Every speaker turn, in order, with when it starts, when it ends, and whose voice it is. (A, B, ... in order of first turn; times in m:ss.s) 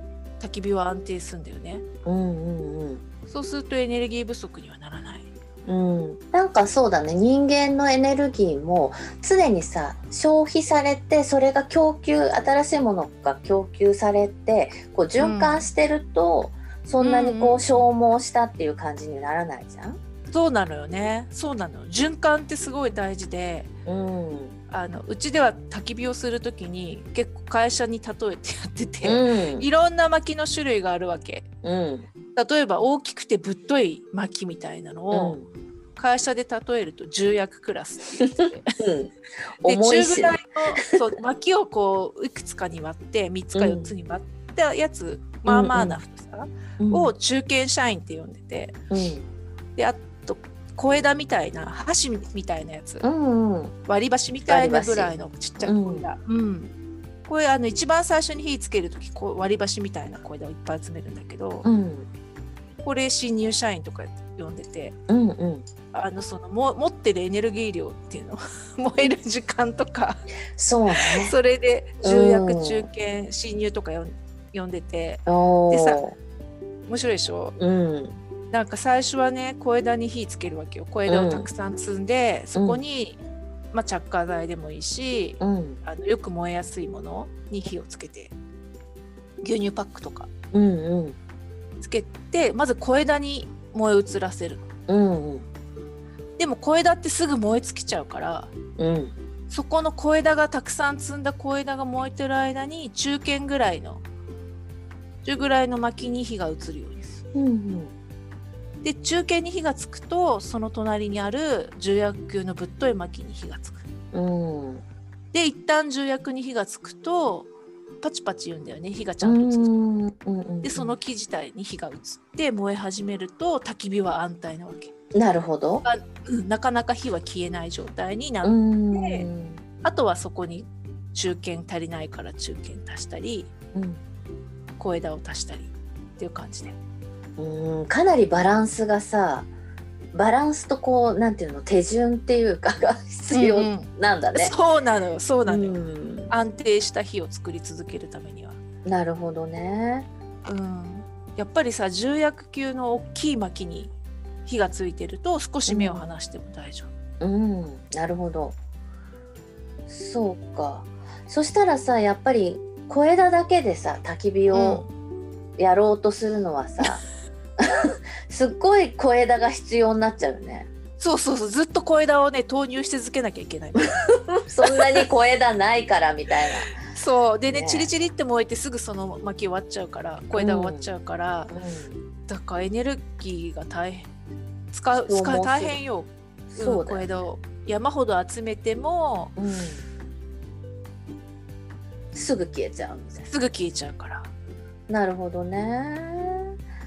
0:00.4-0:01.8 A
0:02.0-0:03.0 B
0:03.3-0:05.3 A
0:05.6-0:20.0 B
0:15.2-0:15.7 A
0:17.0-0:17.8 A
0:20.3-0:23.7 A
0:23.8-0:24.6 B
0:24.7-0:31.5 A
0:29.0-0:29.7 B
0:31.6-0:32.1 B
0:32.3-0:35.4 A
0:35.1-0:35.4 B
0:36.0-0:38.8 A
0:38.2-0:40.4 B
0:39.6-0:48.8 A
0:43.5-0:43.9 B
0:45.4-0:46.0 B
0:46.8-0:47.1 B
0:48.9-0:49.2 B
0:49.8-0:53.0 A
0:53.0-0:53.7 B
0:53.9-0:56.7 A
0:54.5-0:56.1 B
0:57.2-1:01.7 A
1:01.6-1:02.1 B
1:02.8-1:04.9 A
1:05.1-1:05.6 B
1:05.9-1:10.2 A
1:10.6-1:11.3 B
1:10.9-1:16.0 A
1:12.0-1:12.9 B
1:15.3-1:16.1 B
1:16.9-1:17.6 A
1:17.6-1:18.2 B
1:18.5-1:23.2 A
1:21.1-1:21.5 B
1:22.5-1:22.8 B
1:23.7-1:28.3 A
1:25.4-1:25.8 B
1:29.4-1:30.3 A
1:30.5-1:31.2 B
1:31.8-1:34.6 A
1:34.9-1:35.4 B
1:36.4-1:38.5 A
1:38.8-1:39.1 B
1:39.5-1:44.0 A
1:45.2-1:47.2 A
1:47.3-1:47.9 B
1:48.8-1:53.8 A
1:54.1-1:54.8 B
1:55.3-1:57.5 A
1:58.0-1:59.7 A
1:59.2-2:01.0 B
2:00.6-2:04.9 A
2:05.1-2:05.8 B
2:05.8-2:09.3 A
2:08.4-2:09.6 B
2:09.8-2:13.5 A
2:13.7-2:14.0 B
2:14.8-2:16.8 A
2:17.4-2:19.5 B
2:20.1-2:24.5 B
2:23.3-2:25.8 A
2:25.4-2:26.3 B
2:26.3-2:28.6 A
2:28.8-2:30.1 B
2:30.4-2:33.9 A
2:34.4-2:36.9 A
2:35.7-2:36.1 B
2:37.2-2:38.6 B
2:39.9-2:44.8 B
2:44.5-2:44.9 A
2:45.6-2:47.0 B
2:47.6-2:50.7 B
2:51.0-2:54.0 A
2:53.8-2:56.8 B
2:54.7-2:55.0 A
2:56.8-3:01.5 A
2:57.5-2:57.9 B
3:00.4-3:00.9 B
3:01.5-3:02.0 B
3:02.3-3:04.1 A
3:04.7-3:09.3 A
3:05.0-3:05.8 B
3:06.5-3:07.1 B
3:09.4-3:09.8 B
3:12.1-3:13.3 B
3:13.3-3:14.3 A
3:14.9-3:16.5 B